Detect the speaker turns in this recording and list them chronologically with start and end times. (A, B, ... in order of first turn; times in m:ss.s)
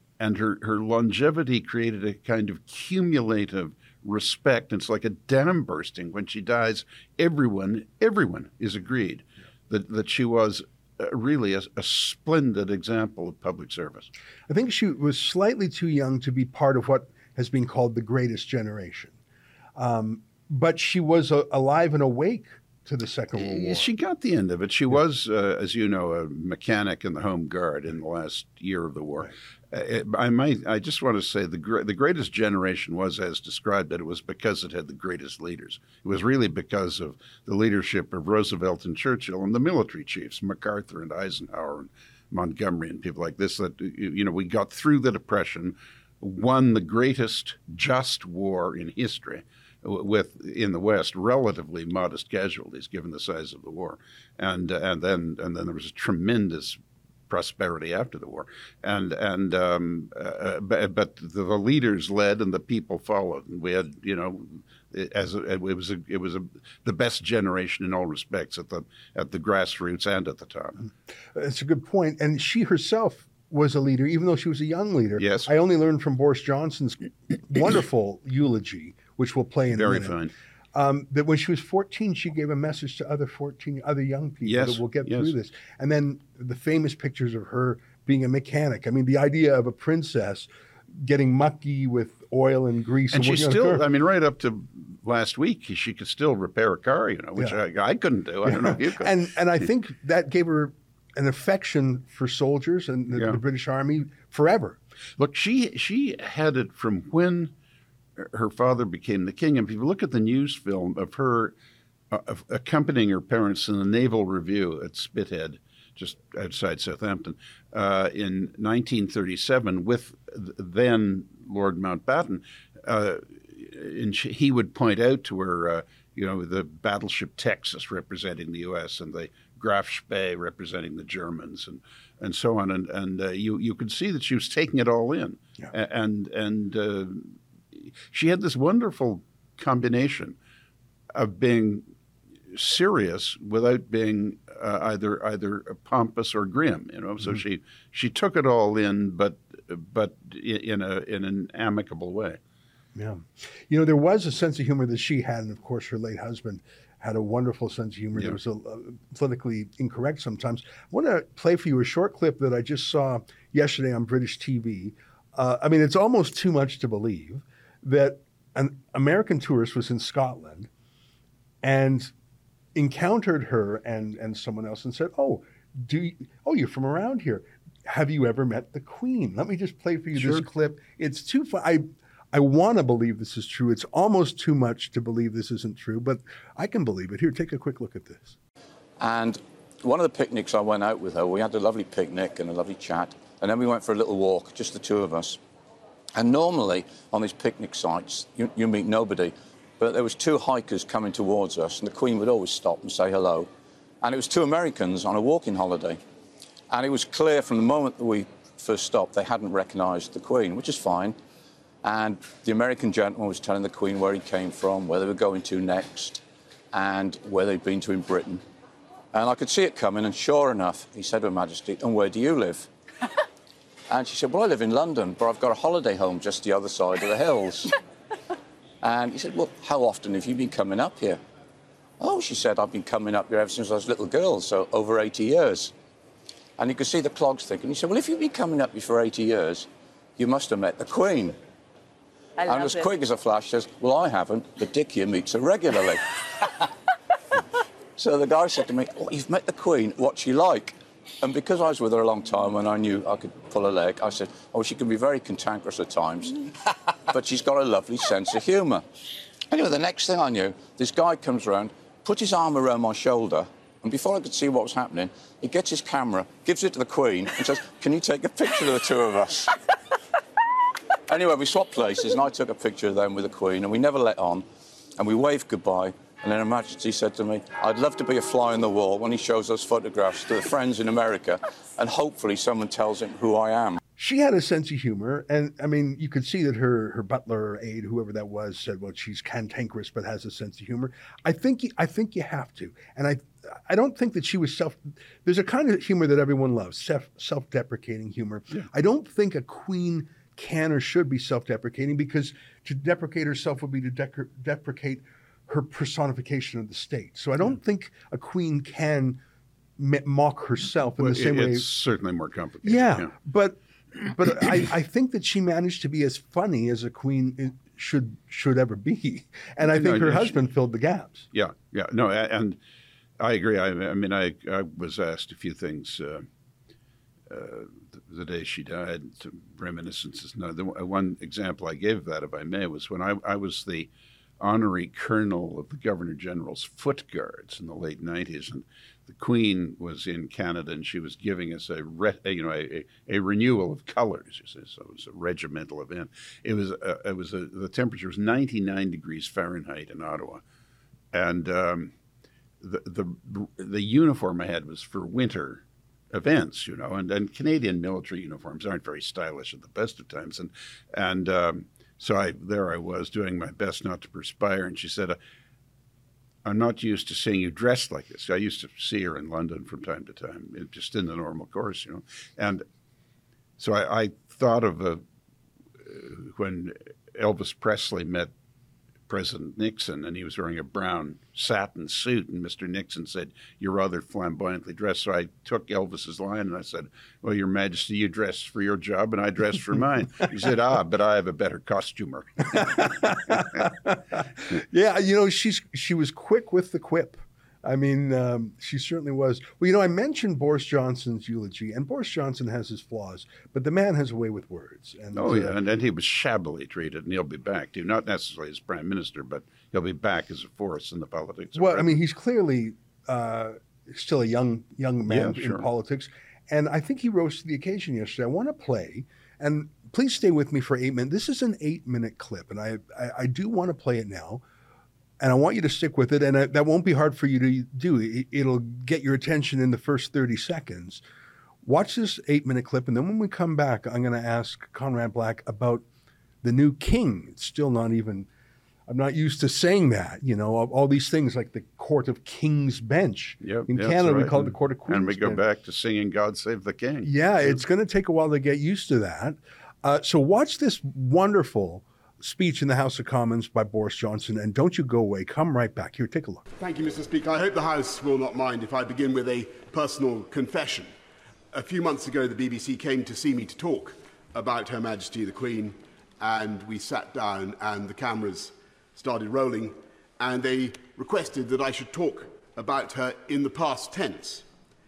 0:00.2-0:14.1 A
0:14.5-0:19.2 B
0:19.8-0:23.9 B
0:23.3-1:10.8 A
1:11.3-1:20.2 B
1:15.2-1:15.5 A
1:19.7-1:20.3 A
1:20.7-1:33.8 B
1:24.4-1:25.3 A
1:33.1-1:39.2 A
1:38.4-1:44.8 B
1:45.2-1:47.5 A
1:48.2-1:51.5 A
1:52.1-2:20.4 A
2:21.1-2:21.8 A
2:22.5-2:32.4 A
2:32.9-2:50.7 B
2:51.6-2:52.1 B
2:52.7-3:08.4 B
3:00.2-3:00.4 A
3:09.0-3:15.4 C
3:16.2-3:23.5 C
3:24.0-3:26.0 C
3:26.7-3:31.2 C
3:31.8-3:38.4 C
3:39.1-3:42.7 C
3:43.9-3:47.8 C
3:48.8-3:51.2 C
3:52.0-3:55.7 C
3:56.6-4:01.4 C
4:02.4-4:06.5 C
4:08.0-4:18.8 C
4:19.5-4:29.6 C
4:31.1-4:34.4 C
4:35.0-4:43.8 C
4:44.0-5:09.2 B
5:09.8-5:11.7 B
5:11.0-5:13.1 A
5:12.6-5:21.3 B
5:19.6-5:20.3 A
5:21.3-5:22.6 A
5:23.2-5:26.2 A
5:27.3-5:50.4 A
5:51.1-5:51.9 A
5:52.6-6:05.2 A
6:06.4-6:12.6 A
6:13.6-6:15.0 A
6:15.8-6:18.3 A
6:19.1-6:32.9 A
6:32.5-6:45.6 B
6:45.1-6:52.0 A
6:51.6-7:04.4 B
6:55.1-6:55.6 A
7:05.2-7:11.0 B
7:11.6-7:15.8 B
7:16.4-7:18.3 B
7:18.9-7:25.4 B
7:23.4-7:27.6 A
7:27.0-7:36.4 B
7:36.6-7:40.9 D
7:41.5-7:54.4 D